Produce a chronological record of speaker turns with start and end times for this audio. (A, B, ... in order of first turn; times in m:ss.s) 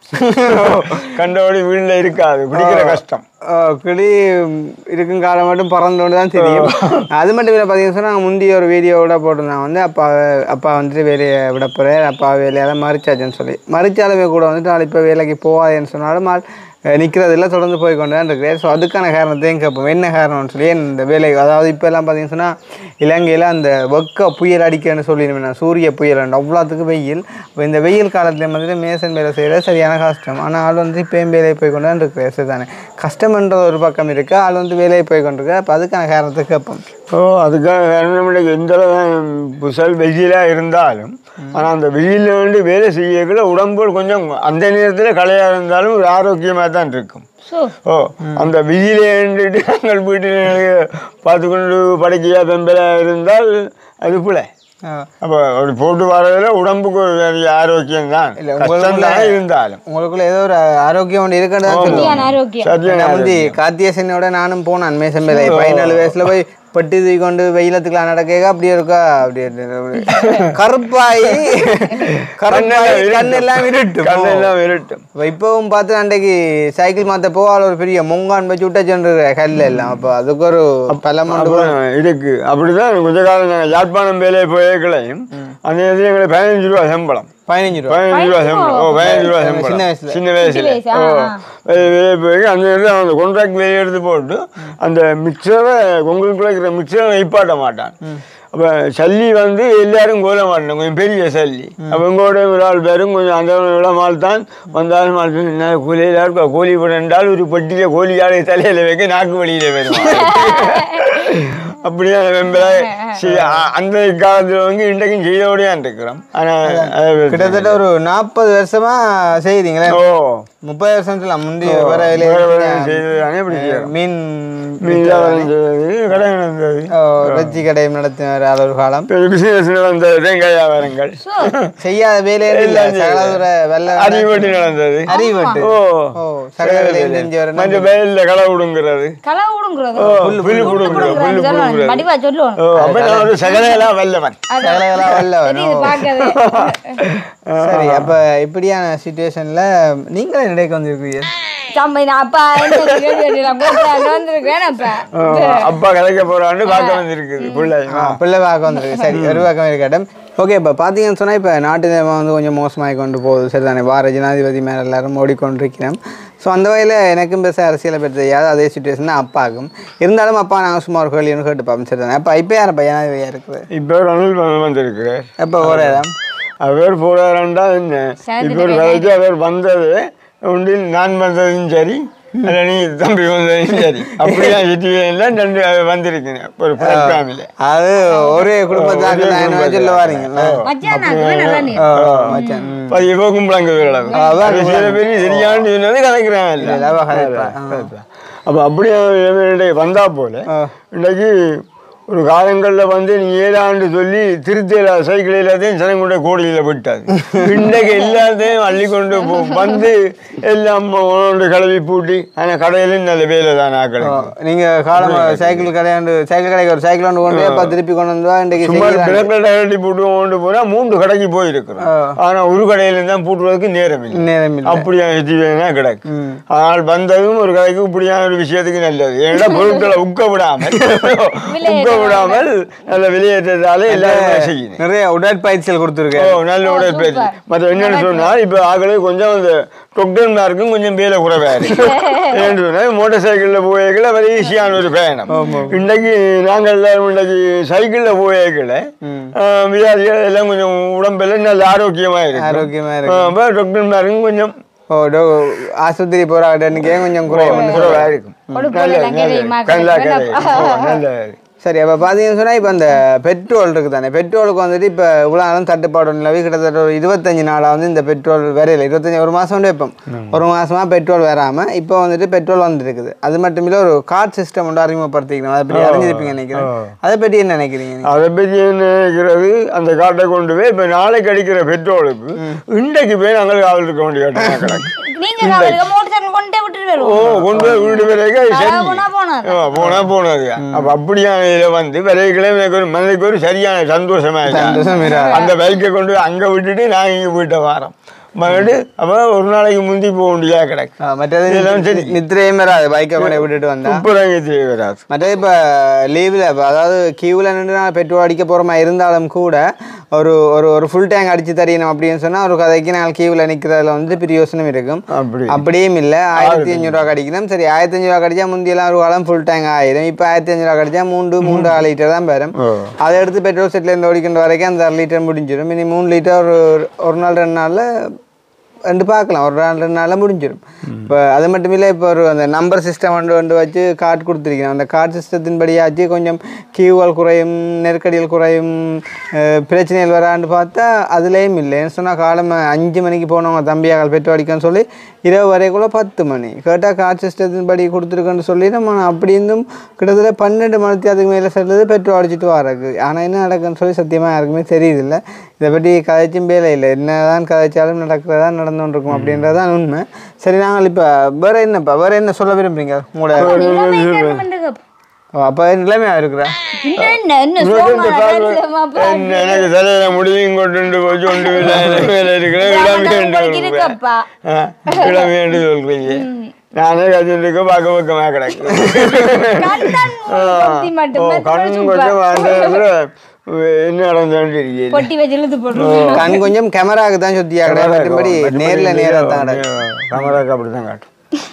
0:00.2-0:01.1 A
0:00.4-0:03.2 B
0:02.5-0:03.0 A
0:03.5-0:36.8 A
0:06.4-0:07.1 B
0:37.1-0:47.2 B
0:47.5-0:47.7 C
0:47.8-0:54.5 B
0:48.2-0:48.5 A
0:55.2-0:59.8 B
0:58.4-1:02.3 A
1:01.7-1:03.6 B
1:01.8-1:02.7 C
1:02.8-1:14.5 A
1:05.3-1:06.3 B
1:10.0-1:10.6 B
1:11.9-1:15.0 B
1:15.2-1:21.8 A
1:20.9-1:27.3 B
1:27.5-1:28.0 A
1:27.8-1:37.9 B
1:28.1-1:29.3 C
1:29.0-1:30.2 A
1:30.4-1:31.4 C
1:38.5-1:57.8 B
1:50.0-1:51.0 C
1:52.6-1:53.2 C
1:53.3-1:53.6 A
1:56.6-2:00.0 A
1:59.8-2:00.4 B
2:00.6-2:05.5 A
2:01.6-2:03.9 B
2:04.8-2:07.6 B
2:06.9-2:09.1 A
2:09.1-2:11.7 B
2:11.2-2:11.5 C
2:11.8-2:14.5 A
2:12.5-2:13.4 B
2:13.9-2:19.2 B
2:15.1-2:17.9 A
2:15.1-2:15.6 C
2:19.2-2:22.6 C
2:20.0-2:24.4 B
2:20.1-2:21.4 A
2:22.7-2:23.3 A
2:24.5-2:27.0 C
2:24.6-2:26.0 A
2:26.0-2:28.1 B
2:27.6-2:31.3 A
2:31.7-2:35.8 C
2:32.6-2:34.1 B
2:35.1-2:38.2 B
2:36.6-2:37.7 C
2:37.9-2:53.6 A
2:39.1-2:39.5 B
2:53.7-2:56.0 B
2:55.4-2:56.1 A
2:56.6-3:07.5 B
2:58.2-2:59.1 C
3:03.8-3:04.6 A
3:06.8-3:11.1 A
3:08.7-3:21.3 B
3:10.6-3:12.7 C
3:11.8-3:13.0 A
3:14.0-3:14.4 C
3:14.1-3:15.6 A
3:16.6-3:17.9 A
3:22.1-3:34.3 B
3:27.2-3:27.5 A
3:34.0-3:39.3 A
3:34.9-3:35.7 B
3:37.3-3:37.8 B
3:38.6-3:54.8 B
3:41.8-3:42.2 A
3:44.1-3:44.8 A
3:46.1-3:46.4 A
3:49.4-3:49.9 C
3:50.7-3:51.1 A
3:51.5-3:52.5 C
3:53.9-3:56.4 A
3:56.1-4:14.6 B
3:56.6-3:58.3 C
4:01.7-4:02.4 C
4:05.3-4:05.8 A
4:09.0-4:09.3 A
4:12.3-4:13.3 A
4:14.9-4:18.7 A
4:16.9-4:21.4 B
4:17.4-4:18.0 C
4:18.5-4:21.0 C
4:21.6-4:38.1 A
4:30.1-4:30.4 B
4:35.7-4:36.9 B
4:38.0-4:45.9 B
4:44.4-4:44.8 A
4:45.0-4:47.2 C
4:47.0-5:00.9 B
4:47.2-4:48.0 A
4:47.8-4:49.6 C
4:49.7-4:50.9 A
4:54.4-4:55.5 A
4:54.8-4:55.4 C
5:01.0-5:04.0 A
5:01.5-5:02.2 B
5:03.2-5:05.0 B
5:05.1-5:27.9 A
5:15.1-5:15.6 B
5:16.3-5:17.0 B
5:21.4-5:21.8 B
5:22.6-5:22.9 B
5:28.9-6:03.6 A
5:59.1-5:59.5 B
6:03.4-6:04.4 B
6:03.4-6:04.8 C
6:05.4-6:06.5 A
6:06.8-6:09.7 C
6:07.0-6:25.1 B
6:11.4-6:11.8 C
6:12.5-6:14.2 C
6:14.9-6:15.2 C
6:16.0-6:16.5 C
6:18.7-6:19.1 A
6:19.4-6:22.8 C
6:24.9-6:26.4 C
6:25.7-6:26.4 B
6:26.1-6:29.6 A
6:27.6-6:31.0 B